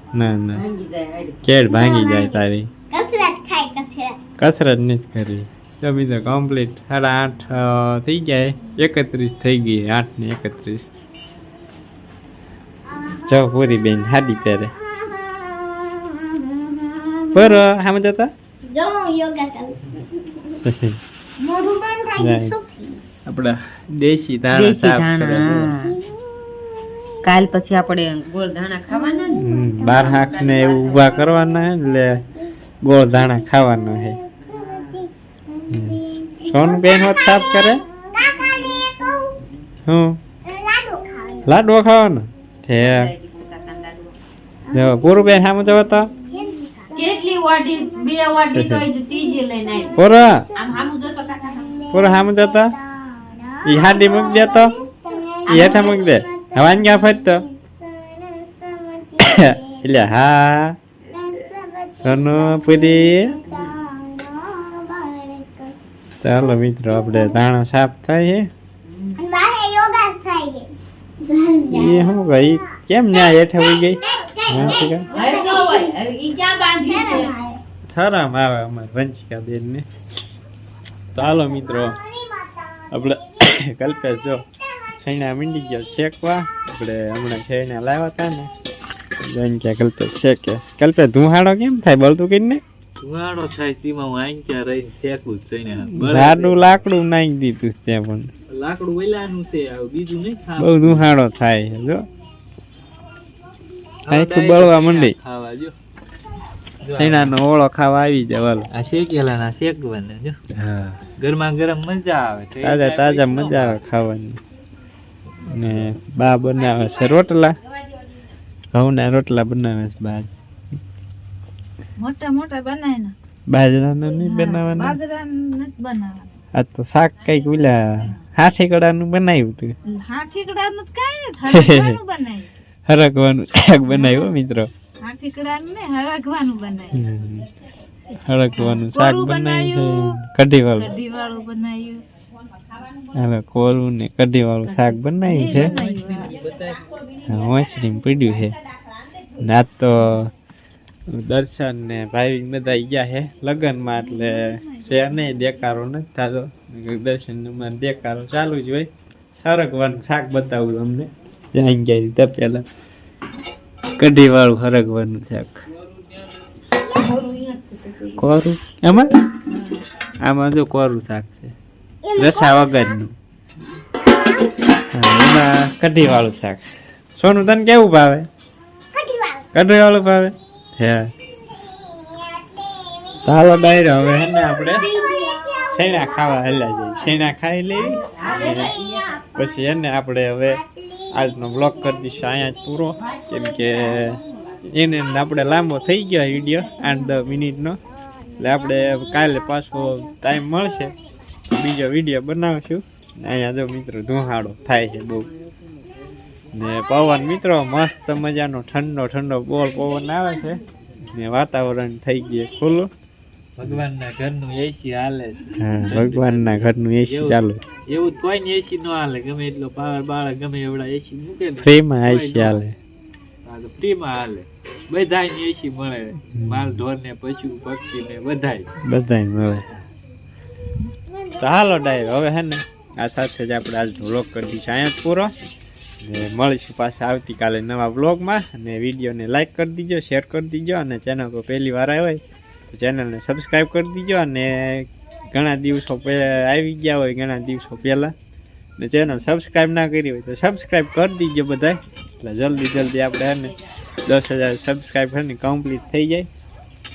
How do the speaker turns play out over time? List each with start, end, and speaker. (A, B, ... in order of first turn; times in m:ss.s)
0:00.1-0:00.6 A
0:00.5-0:01.4 B
0:01.4-0:02.7 A
0:01.7-0:04.2 C
0:04.4-0:10.9 A
0:13.2-0:14.7 A
0:15.1-0:17.6 C
0:17.3-0:18.3 A
0:18.7-0:20.0 C
0:20.6-0:21.0 A
0:21.4-0:23.0 C
0:22.2-0:22.6 A
0:23.3-0:25.8 A
0:24.5-0:26.0 B
0:27.2-0:31.4 B
0:28.9-0:29.9 C
0:29.4-0:32.2 A
0:32.8-0:34.2 A
0:34.4-0:35.1 C
0:34.4-0:35.0 B
0:35.7-0:37.8 A
0:36.1-0:36.4 C
0:37.9-0:39.3 C
0:39.9-0:40.2 A
0:40.5-0:41.6 C
0:41.4-0:43.1 A
0:42.8-0:44.2 B
0:44.7-0:46.1 A
0:44.7-0:45.3 C
0:46.2-0:48.2 C
0:46.9-0:50.0 B
0:48.5-0:48.9 A
0:49.2-0:50.7 C
0:49.9-0:50.5 A
0:50.5-0:51.8 B
0:51.3-0:59.6 C
0:51.9-0:52.8 A
0:53.6-0:54.8 A
0:55.5-0:56.0 B
0:55.5-0:57.5 A
0:59.2-1:00.7 A
1:01.1-1:05.7 C
1:02.0-1:03.5 A
1:06.2-1:08.5 A
1:08.9-1:09.2 B
1:09.2-1:12.2 C
1:11.7-1:15.1 A
1:14.1-1:16.0 C
1:14.6-1:17.3 B
1:16.8-1:17.6 C
1:17.9-1:19.8 A
1:21.1-1:22.0 A
1:22.2-1:22.8 C
1:22.9-1:24.4 A
1:25.0-1:28.5 A
1:29.2-1:32.6 A
1:33.0-1:36.8 D
1:35.9-1:38.3 A
1:38.5-1:41.1 D
1:40.6-1:42.0 A
1:44.1-1:45.8 D
1:44.1-1:45.2 A
1:46.8-1:47.4 D
1:47.0-1:48.7 A
1:48.7-1:53.8 D
1:52.6-1:54.4 A
1:55.5-1:57.6 A
1:58.7-2:00.3 A
2:02.0-2:03.1 E
2:03.5-2:05.0 A
2:04.2-2:06.3 E
2:06.5-2:09.8 A
2:09.9-2:12.5 E
2:11.4-2:12.0 A
2:12.9-2:14.7 A
2:15.0-2:17.0 E
2:16.9-2:17.5 A
2:18.2-2:21.0 A
2:18.6-2:20.1 E
2:20.8-2:22.0 E
2:23.1-2:25.8 A
2:25.3-2:26.4 E
2:25.8-2:27.0 D
2:27.2-2:28.6 A
2:29.4-2:30.3 A
2:31.1-2:42.7 A
2:34.1-2:34.9 E
2:44.0-2:45.6 A
2:47.0-2:48.2 E
2:48.2-2:49.2 A
2:50.2-2:51.5 A
2:52.0-2:52.9 C
2:52.2-2:53.1 A
2:54.9-2:56.6 A
2:57.2-2:58.3 A
2:58.9-2:59.5 C
2:59.5-3:01.1 A
3:01.8-3:03.2 C
3:03.2-3:04.9 A
3:04.8-3:06.1 C
3:05.7-3:08.8 A
3:08.1-3:09.2 B
3:08.6-3:09.5 C
3:09.4-3:17.8 A
3:10.8-3:11.0 C
3:13.1-3:14.6 B
3:18.4-3:21.0 A
3:21.5-3:25.3 A
3:26.5-3:30.6 A
3:31.1-3:32.9 A
3:33.6-3:42.6 D
3:35.6-3:37.6 A
3:41.6-3:42.8 A
3:43.4-3:48.7 D
3:46.4-3:46.8 A
3:48.8-3:49.6 A
3:51.4-3:55.3 A
3:56.0-4:08.1 A
4:08.8-4:13.5 A
4:14.1-4:16.3 A